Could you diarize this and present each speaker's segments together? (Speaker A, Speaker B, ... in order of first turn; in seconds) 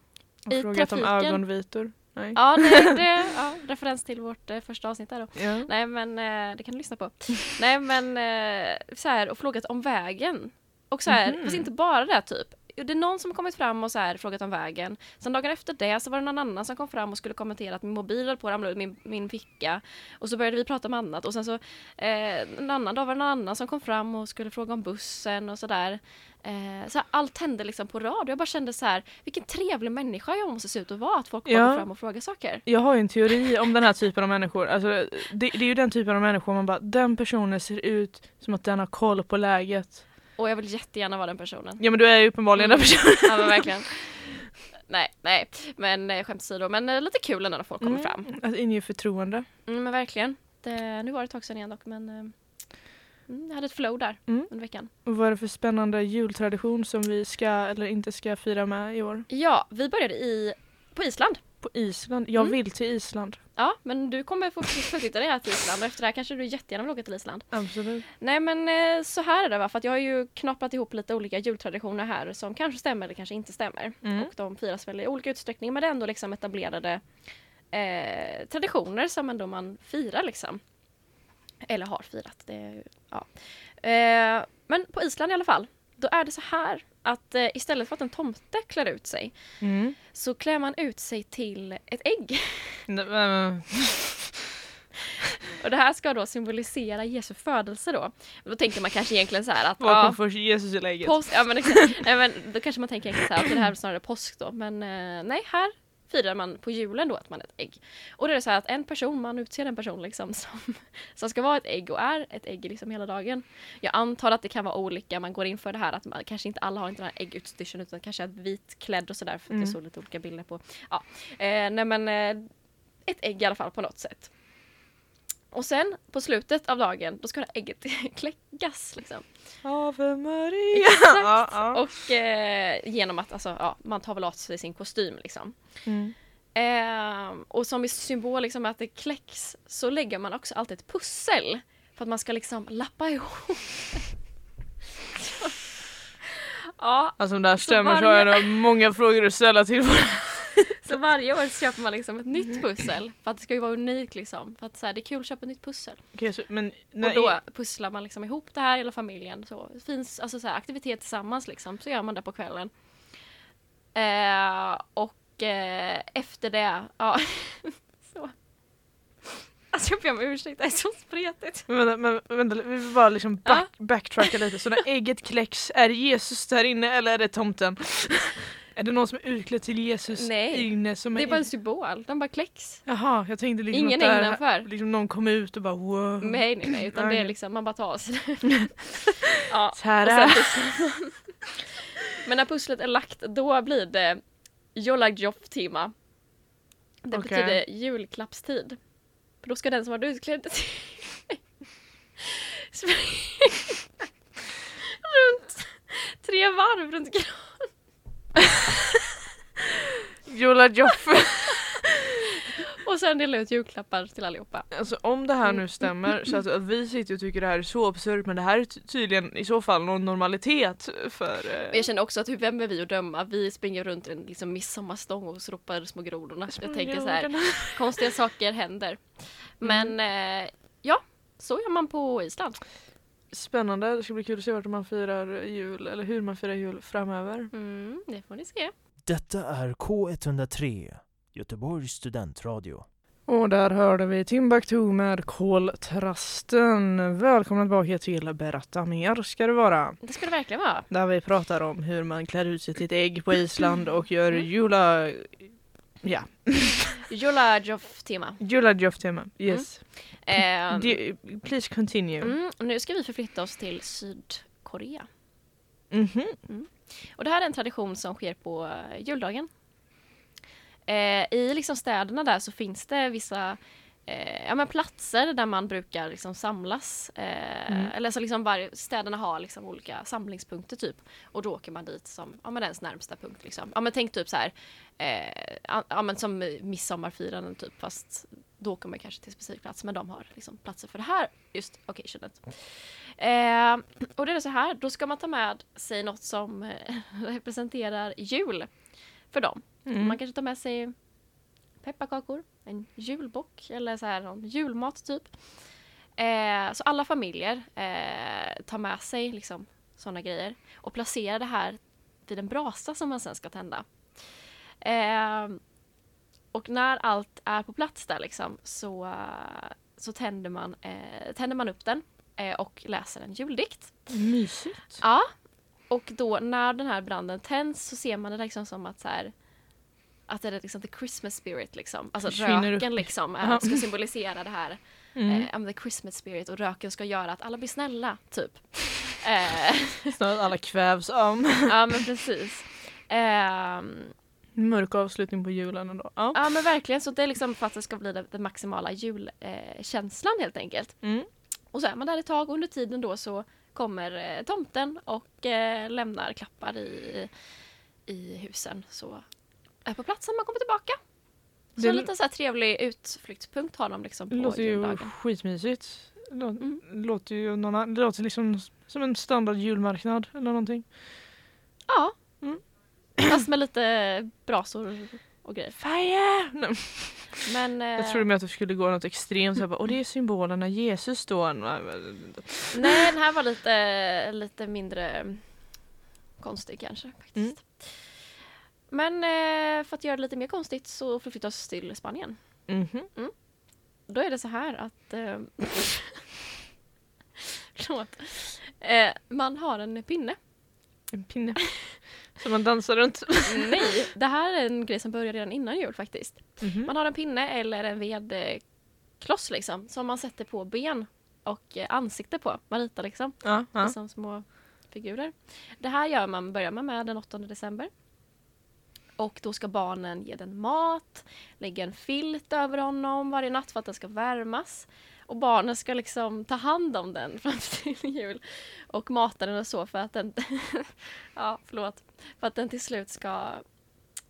Speaker A: 0.5-3.0, 5.3-5.7, 11.1-11.7, 31.4-32.0, 32.5-40.0, 41.8-44.0, 47.8-49.5, 54.3-59.2, 61.6-63.4, 67.5-68.0, 74.0-74.3, 89.6-90.0, 92.9-94.3, 99.8-102.0, 119.5-119.8, 129.6-131.8, 135.8-136.1, 147.2-150.9, 156.1-157.4, 171.7-181.5, 182.8-187.3, 189.7-190.7, 197.1-197.6, 210.2-212.0, 214.7-221.9, 226.5-228.1, 229.6-229.9, 233.3-237.5, 243.3-250.2, 250.9-257.1, 258.4-262.4, 265.9-266.4, 299.9-300.2, 324.1-325.0, 332.2-333.9, 335.1-335.5, 340.1-342.1, 344.6-346.5, 361.8-362.1, 364.3-371.0, 375.8-383.1, 392.7-393.1, 401.1-404.0, 406.6-406.9, 413.4-413.9
Speaker B: 0.5-1.5, 2.3-32.9, 40.3-41.8, 42.5-48.3, 49.6-52.3, 53.3-54.9, 59.3-61.4, 63.5-67.5, 68.2-77.0, 77.7-80.6, 81.6-89.3, 90.1-92.8, 95.6-100.2, 101.0-122.5, 123.0-124.3, 125.5-129.2, 130.7-135.5, 136.5-144.1, 145.1-145.6, 146.2-148.5, 150.8-156.0, 157.0-162.7, 163.9-168.3, 169.7-171.7, 173.4-174.5, 180.1-182.8, 183.7-184.7, 186.2-194.2, 194.7-195.9, 197.0-198.8, 199.4-201.4, 202.2-203.8, 205.0-207.7, 212.3-214.7, 221.7-232.6, 237.5-238.7, 250.0-250.9, 257.1-258.4, 259.5-261.0, 262.2-265.1, 266.5-269.5, 270.9-298.7, 299.3-300.9, 301.8-305.3, 306.2-313.8, 314.8-315.6, 316.5-324.1, 325.0-325.3, 325.9-329.3, 330.3-340.1, 341.7-344.1, 346.3-351.0, 351.7-357.3, 358.1-359.2, 359.8-361.0, 361.8-365.1, 371.9-372.1, 373.2-375.8, 377.4-378.3, 382.7-385.4, 386.4-388.1, 388.9-392.4, 394.1-396.2, 397.4-400.4, 403.4-408.6, 409.2-417.9, 419.2-433.6
Speaker C: 239.0-242.8